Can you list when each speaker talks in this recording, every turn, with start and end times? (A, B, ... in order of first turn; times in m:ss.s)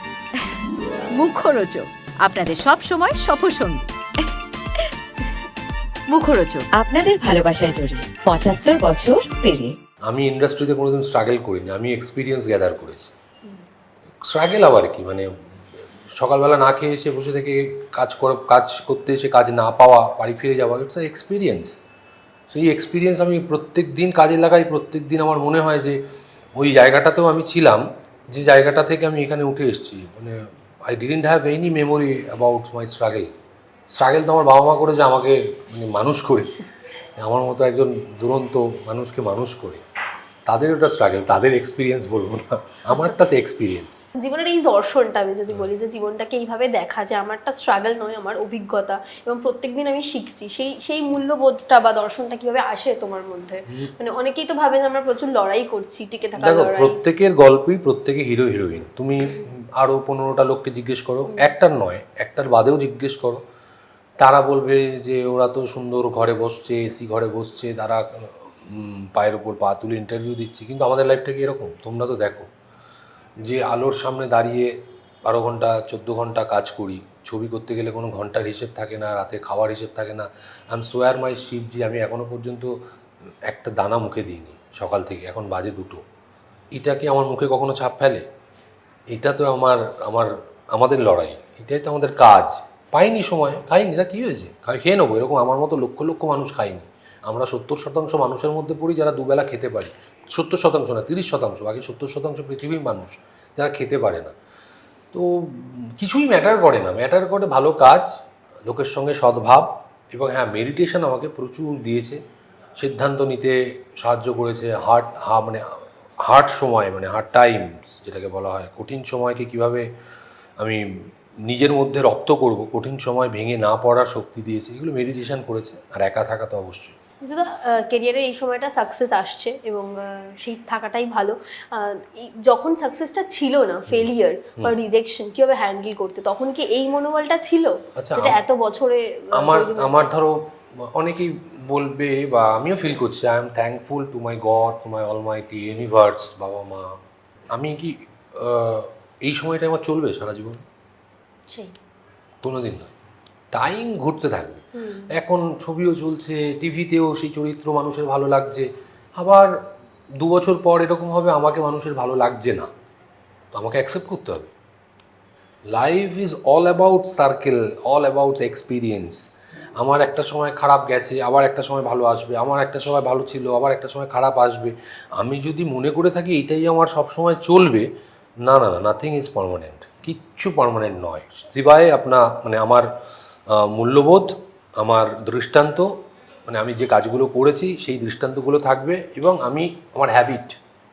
0:01.1-0:05.3 A
0:06.1-0:06.7 A
0:06.7-0:09.7 B
0:10.0-0:13.1 C
0:14.2-0:15.3 C
0:16.1-0:21.8 C
0:22.5-0:26.0 C
0:26.6-0:33.3 C
0:33.9-0:36.5 C
0:37.2-0:39.8 C
0:40.4-0:44.0 C
0:44.2-0:57.0 D
0:56.4-1:03.4 C
1:04.2-1:12.5 C
1:13.4-1:14.7 C
1:15.2-1:22.7 C
1:23.4-1:26.0 C
1:26.7-1:28.2 C
1:29.1-1:44.3 C
1:45.1-1:48.1 C
1:48.6-1:52.2 C
1:52.8-1:55.6 C
1:56.2-1:59.8 C
2:01.4-2:06.9 C
2:07.2-2:20.1 D
2:13.9-2:14.7 C
2:18.0-2:18.4 C
2:19.3-2:26.9 C
2:27.5-2:30.6 C
2:32.4-2:32.9 C
2:33.5-2:39.5 C
2:34.7-2:35.1 D
2:40.2-2:42.7 C
2:43.5-2:44.5 C
2:45.7-2:49.2 C
2:49.8-2:57.9 C
2:58.4-3:02.8 C
3:03.5-3:05.9 C
3:06.5-3:10.6 C